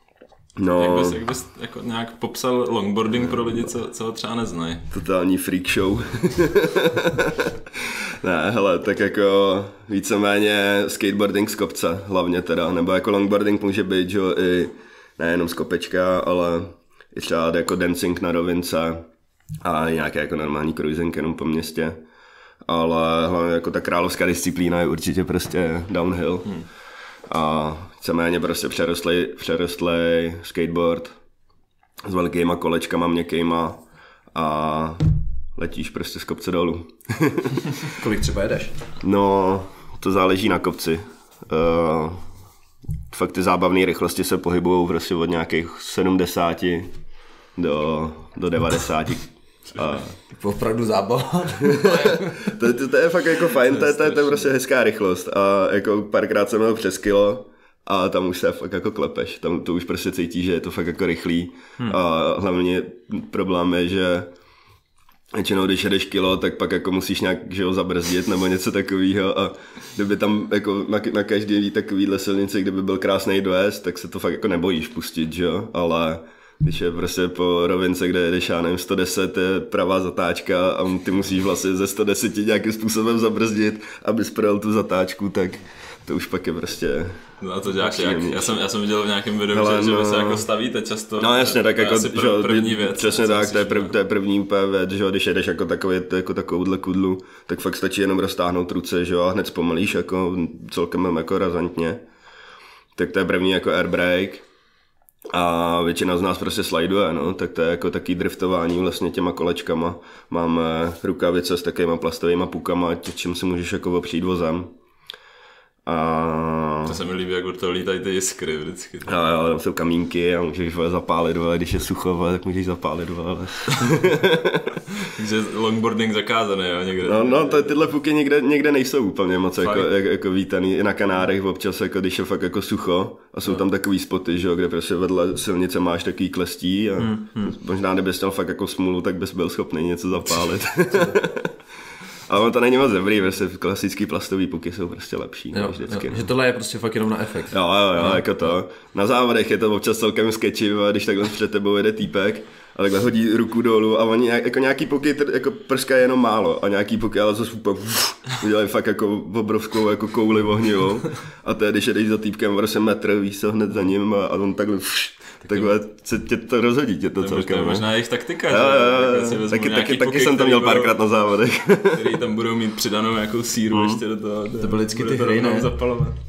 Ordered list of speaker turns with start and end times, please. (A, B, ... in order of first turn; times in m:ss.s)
0:00.6-0:01.2 A
0:00.8-0:04.9 B
0:04.9-0:19.1 A
0:19.6-0:22.0 A
0:22.7-0:26.6 A
0:27.3-0:31.2 A
0:32.1-0:33.8 A
0:34.3-0:37.7 A
0:38.0-0:38.7 C
0:39.0-0:42.2 A
0:43.1-0:46.9 A
0:47.6-0:50.2 A
0:50.3-0:52.6 C
0:51.6-1:04.3 A
0:53.9-0:54.2 B
1:05.3-1:28.6 A
1:27.4-1:34.0 B
1:29.5-1:30.4 A
1:31.2-1:42.0 A
1:43.0-1:44.5 A
1:45.3-1:54.7 A
1:55.9-1:57.0 A
1:56.8-1:59.2 B
1:59.1-2:04.8 A
2:05.0-2:07.7 B
2:07.0-2:21.6 A
2:09.6-2:09.9 B
2:17.0-2:17.6 C
2:22.3-2:26.3 A
2:25.5-2:28.2 C
2:27.5-2:47.9 A
2:47.2-2:51.0 B
2:48.5-2:52.2 A
2:51.9-2:56.2 B
2:53.7-2:54.0 A
2:54.6-2:55.7 C